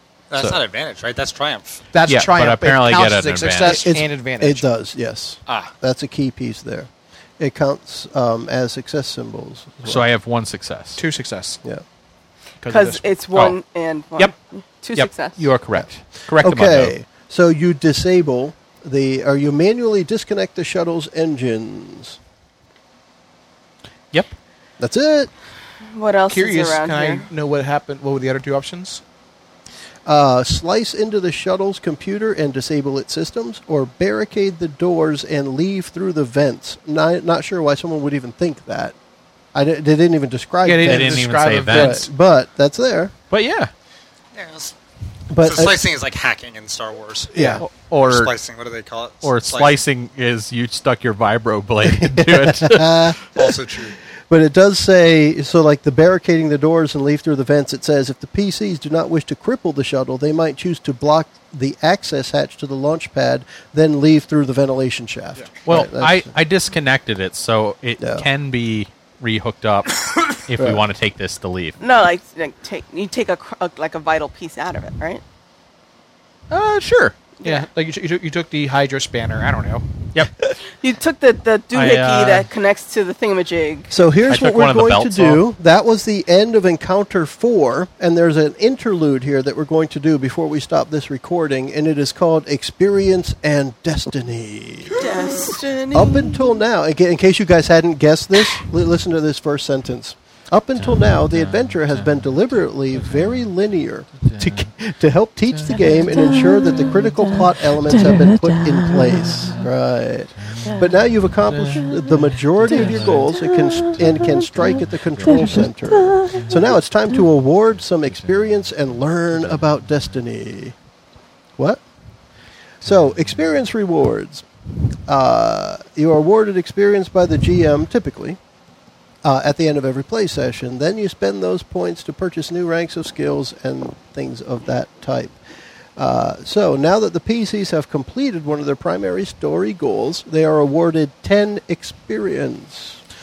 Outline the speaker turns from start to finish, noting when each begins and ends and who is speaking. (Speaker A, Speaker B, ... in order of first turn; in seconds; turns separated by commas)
Speaker A: 0.3-1.8, Speaker B: 1.9-4.7, Speaker C: 2.1-3.9, Speaker D: 3.6-10.1, Speaker A: 5.5-5.7, Speaker C: 9.9-11.0, Speaker B: 11.0-11.6, Speaker B: 12.6-13.1, Speaker E: 12.7-15.5, Speaker C: 13.3-13.6, Speaker C: 14.9-16.9, Speaker D: 15.7-22.2, Speaker D: 24.8-25.3, Speaker E: 25.9-27.3, Speaker B: 26.3-29.0, Speaker D: 30.1-39.0, Speaker D: 39.5-43.1, Speaker B: 40.6-42.1, Speaker C: 40.8-42.1, Speaker C: 43.3-43.7, Speaker A: 44.4-44.8, Speaker D: 45.3-45.8, Speaker A: 45.4-47.3, Speaker D: 47.3-47.6, Speaker C: 47.5-48.3, Speaker A: 48.0-49.8, Speaker C: 49.2-53.1, Speaker D: 51.8-53.6, Speaker A: 53.3-54.0, Speaker D: 54.3-66.3, Speaker C: 65.7-71.8, Speaker D: 68.0-68.3, Speaker D: 70.6-70.8, Speaker E: 71.8-75.2, Speaker C: 76.5-77.2, Speaker B: 77.4-79.9, Speaker C: 80.1-80.6, Speaker E: 80.8-83.9, Speaker C: 81.7-82.5, Speaker D: 83.9-95.1, Speaker C: 84.3-85.4, Speaker E: 95.0-96.4, Speaker D: 95.9-120.8, Speaker C: 100.8-102.3, Speaker C: 103.1-103.3, Speaker C: 104.2-104.7, Speaker C: 105.5-105.8, Speaker C: 109.4-109.7, Speaker C: 110.4-110.7, Speaker C: 111.5-114.2, Speaker C: 114.8-115.7, Speaker C: 116.3-116.6, Speaker D: 122.8-124.5, Speaker D: 125.1-128.4, Speaker D: 129.2-135.4, Speaker D: 136.0-143.0